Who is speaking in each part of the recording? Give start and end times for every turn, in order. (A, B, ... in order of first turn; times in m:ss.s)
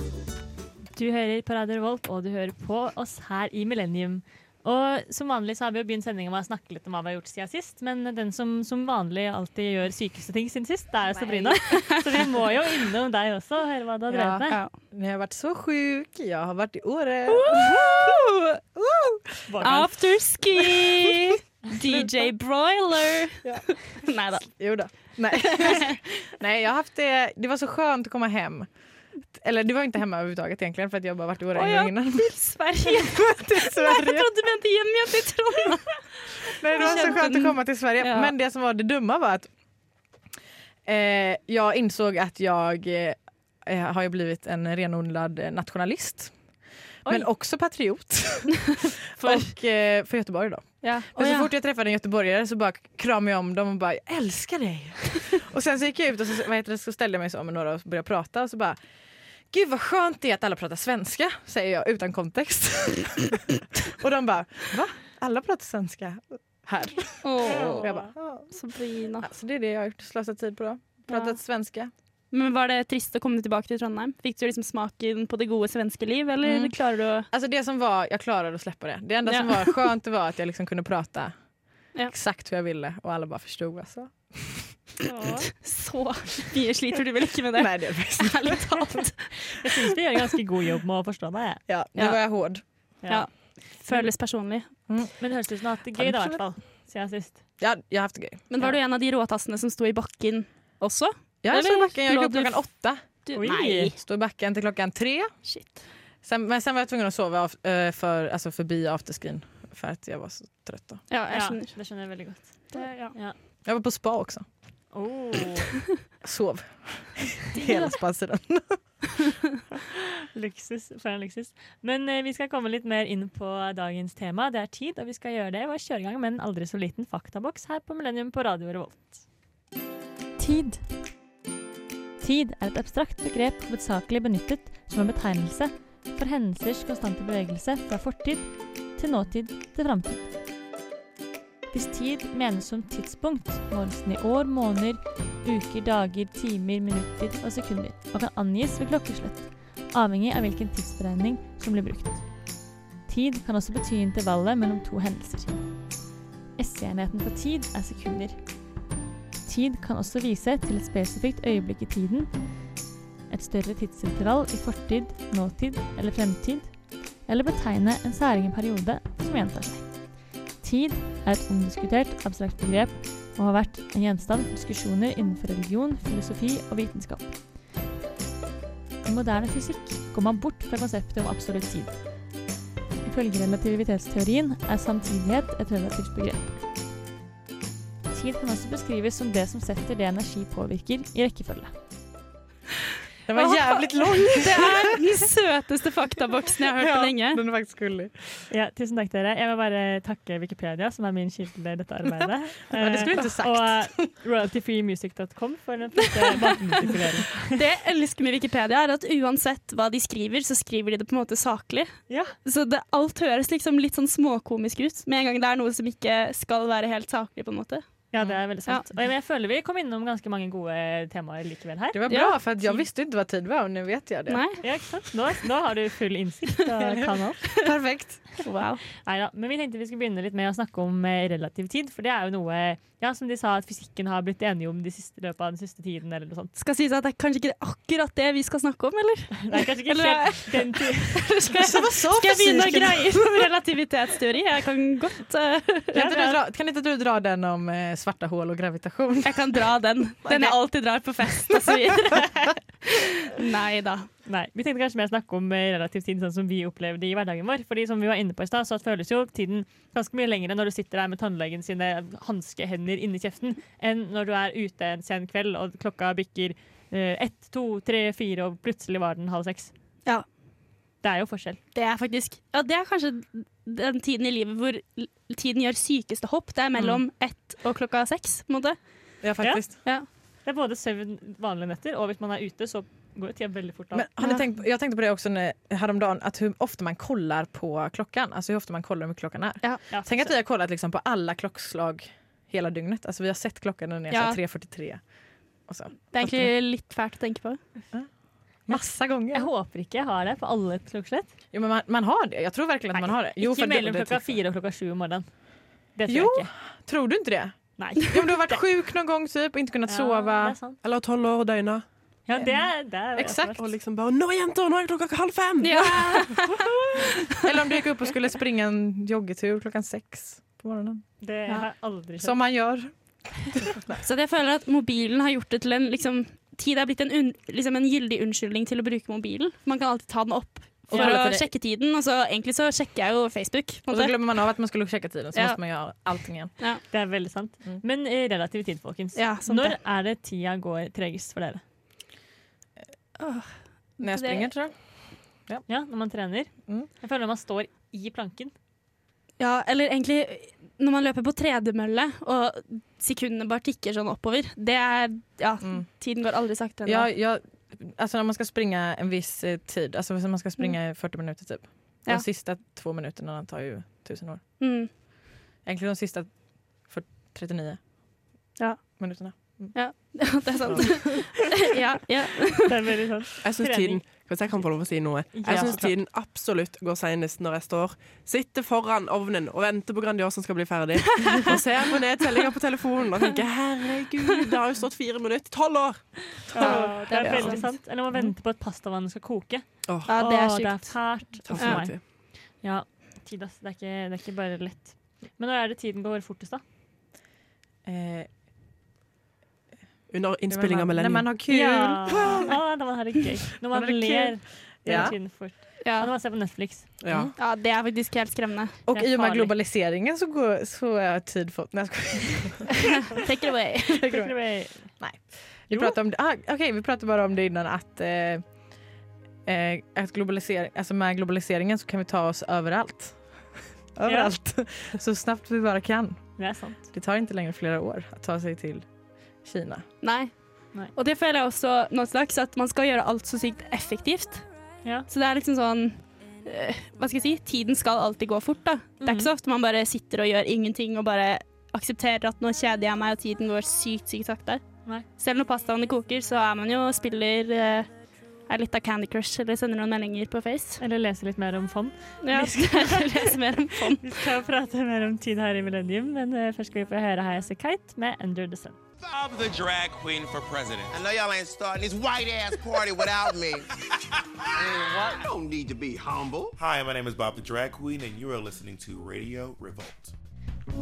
0:01.0-0:14.6 A
0:14.1-0:18.2 B
0:17.3-0:18.6 C
0:18.8-0:19.6 B
0:19.5-0:19.9 A
0:19.6-0:24.6 C
0:20.5-0:21.2 B
0:21.8-0:22.1 B
0:23.4-0:23.7 B
0:24.5-0:28.7 B
0:25.4-0:26.0 C
0:29.3-0:34.3 B
0:31.5-0:38.3 C
0:36.6-0:39.5 B
0:40.8-0:46.4 B
0:47.0-0:58.8 B
0:49.2-0:49.5 C
0:50.8-0:51.5 C
0:59.5-1:08.5 B
1:07.2-1:09.3 C
1:07.5-1:08.1 A
1:09.2-1:11.9 B
1:11.1-1:11.4 C
1:12.3-1:17.3 C
1:16.4-1:24.7 B
1:19.2-1:19.8 C
1:25.0-1:25.5 A
1:25.5-1:29.3 C
1:27.5-1:28.9 B
1:29.6-1:31.6 A
1:31.7-1:32.6 B
1:33.0-1:34.1 A
1:33.1-1:34.7 C
1:34.9-1:35.3 B
1:35.2-1:37.4 A
1:35.9-1:36.5 B
1:37.6-1:38.7 B
1:38.5-1:43.9 C
1:41.4-1:43.2 B
1:43.3-1:43.9 A
1:43.9-1:45.3 B
1:45.4-1:45.9 C
1:46.2-1:51.1 B
1:51.1-1:52.0 C
1:51.3-1:53.3 A
1:52.7-1:53.2 C
1:53.6-1:54.5 B
1:54.9-1:55.8 A
1:56.2-1:59.0 B
1:57.6-1:57.9 C
2:00.3-2:09.2 A
2:10.4-2:10.8 A
2:12.2-2:20.3 A
2:21.7-2:35.9 A
2:36.6-2:38.7 A
2:39.4-2:42.6 A
2:43.3-2:57.4 A
2:59.0-3:02.0 A
3:03.0-3:06.6 A
3:08.1-3:11.7 A
3:13.3-3:14.8 B
3:13.3-3:17.4 C
3:16.7-3:18.1 B
3:18.5-3:27.5 A
3:22.7-3:24.1 B
3:27.5-3:38.0 C
3:32.1-3:32.3 A
3:38.1-3:42.8 A
3:41.9-3:44.4 B
3:42.1-3:42.3 C
3:44.3-3:44.6 C
3:44.6-3:47.5 A
3:47.6-3:48.2 B
3:48.4-3:48.8 C
3:49.0-3:56.5 A
3:56.6-4:06.0 C
3:59.5-4:01.2 A
4:01.6-4:03.4 B
4:05.9-4:09.6 B
4:05.9-4:06.4 A
4:09.2-4:14.1 C
4:10.2-4:10.6 B
4:14.2-4:29.7 A
4:31.0-4:31.6 A
4:31.7-4:38.8 C
4:36.8-4:37.0 B
4:39.2-4:39.8 B
4:39.4-4:39.9 A
4:40.4-4:44.1 A
4:43.9-4:56.5 B
4:49.9-4:50.3 A
4:54.1-4:54.4 C
4:56.1-4:57.6 C
4:58.6-4:59.5 B
4:59.3-5:01.3 A
5:01.5-5:04.4 B
5:02.9-5:05.3 A
5:05.9-5:06.5 A
5:06.1-5:10.6 B
5:07.8-5:08.6 A
5:09.9-5:10.8 A
5:10.8-5:11.8 D
5:12.2-5:13.6 A
5:12.4-5:13.6 B
5:13.6-5:16.4 D
5:15.6-5:16.6 C
5:17.4-5:21.0 B
5:21.2-5:22.3 A
5:22.2-5:22.9 B
5:23.6-5:24.0 B
5:24.0-5:34.2 C
5:30.9-5:31.5 B
5:30.9-5:31.2 A
5:33.9-5:36.5 B
5:35.3-5:35.6 C
5:36.9-5:41.6 A
5:39.1-5:39.8 C
5:43.2-5:44.5 C
5:44.0-5:44.7 B
5:45.7-5:48.5 A
5:49.4-5:57.1 C
5:56.8-6:04.8 B
6:04.6-6:04.9 C
6:05.6-6:07.8 B
6:08.6-6:12.7 C
6:09.0-6:11.0 B
6:12.6-6:15.9 A
6:13.4-6:26.7 D
6:15.5-6:15.9 B
6:26.5-6:27.7 C
6:26.5-6:36.6 A
6:26.6-6:27.6 B
6:29.8-6:30.1 D
6:30.1-6:31.8 C
6:31.4-6:32.0 D
6:37.8-6:38.3 B
6:40.1-6:41.4 D
6:40.5-6:42.5 B
6:41.5-6:46.9 A
6:43.7-6:45.1 B
6:45.8-6:46.1 C
6:47.0-6:47.3 D
6:47.1-6:47.3 B
6:47.4-6:48.8 C
6:48.9-6:52.7 B
6:48.9-6:49.5 A
6:53.1-6:54.1 C
6:53.9-6:58.6 B
6:54.1-6:55.0 A
6:55.7-6:56.0 A
6:59.4-7:09.8 B
7:04.0-7:04.3 A
7:06.4-7:06.8 A
7:10.0-7:27.9 C
7:19.0-7:19.3 A
7:28.5-7:30.8 C
7:30.8-7:33.2 A
7:32.2-7:34.2 C
7:34.0-7:38.8 A
7:39.1-7:40.9 E
7:40.9-7:43.6 F
7:44.6-7:46.6 F
7:44.7-7:45.1 E
7:46.6-7:50.1 E